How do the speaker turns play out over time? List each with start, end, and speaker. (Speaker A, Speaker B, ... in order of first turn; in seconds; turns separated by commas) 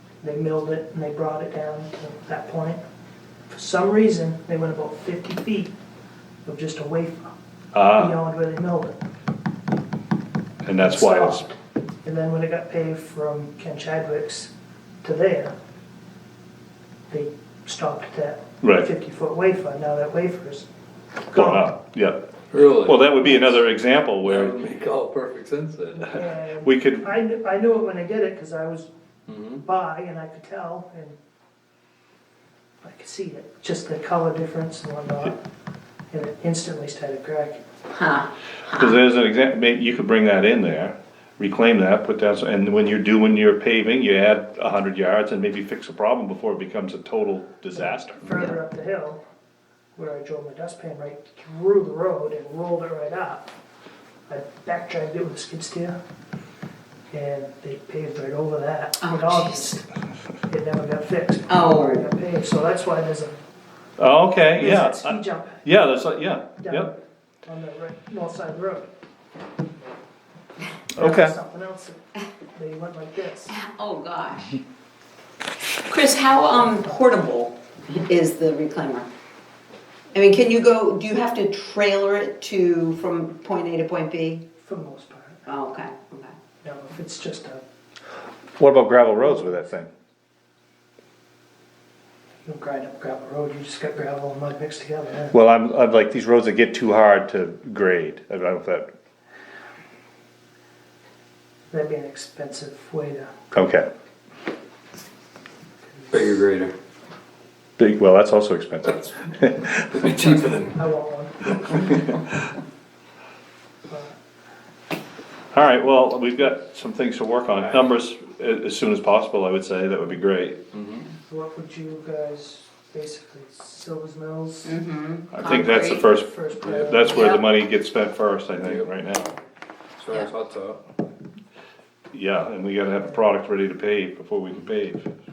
Speaker A: 0.2-2.8, Speaker A: 3.5-5.7, Speaker A: 6.5-7.3, Speaker B: 7.7-8.2, Speaker A: 7.9-9.0, Speaker B: 10.6-11.5, Speaker A: 10.8-14.5, Speaker A: 15.0-15.5, Speaker A: 17.1-20.7, Speaker B: 18.6-18.9, Speaker A: 21.3-21.7, Speaker B: 21.3-22.2, Speaker C: 22.5-23.0, Speaker B: 22.8-24.6, Speaker A: 23.2-23.6, Speaker C: 24.2-26.1, Speaker A: 26.0-28.9, Speaker B: 26.6-27.1, Speaker C: 29.3-29.6, Speaker A: 29.6-31.2, Speaker A: 32.8-35.4, Speaker A: 36.1-37.6, Speaker D: 37.9-39.0, Speaker B: 38.7-48.4, Speaker A: 47.7-49.2, Speaker D: 48.3-48.6, Speaker A: 50.0-53.5, Speaker A: 54.3-56.0, Speaker A: 57.1-59.9, Speaker D: 59.0-59.7, Speaker A: 60.5-63.4, Speaker D: 61.5-62.0, Speaker B: 64.0-66.9, Speaker A: 64.5-65.7, Speaker A: 66.6-68.9, Speaker B: 70.9-71.3, Speaker A: 71.0-73.6, Speaker D: 73.5-74.6, Speaker D: 75.9-79.1, Speaker D: 80.1-84.5, Speaker A: 84.6-85.4, Speaker D: 85.5-86.3, Speaker A: 86.6-87.6, Speaker B: 88.6-89.9, Speaker A: 89.1-89.7, Speaker A: 92.5-95.3, Speaker B: 95.3-98.9, Speaker A: 101.7-103.3, Speaker B: 103.5-103.9, Speaker C: 106.1-106.7, Speaker B: 107.8-109.9, Speaker C: 109.6-110.8, Speaker A: 110.0-112.1, Speaker A: 113.9-114.2, Speaker B: 115.5-120.6, Speaker C: 120.7-121.1, Speaker A: 121.3-124.8, Speaker D: 124.7-126.1, Speaker B: 125.3-129.3, Speaker A: 125.5-127.3, Speaker D: 127.1-127.4, Speaker C: 128.6-128.9, Speaker C: 130.0-130.8, Speaker B: 132.1-135.1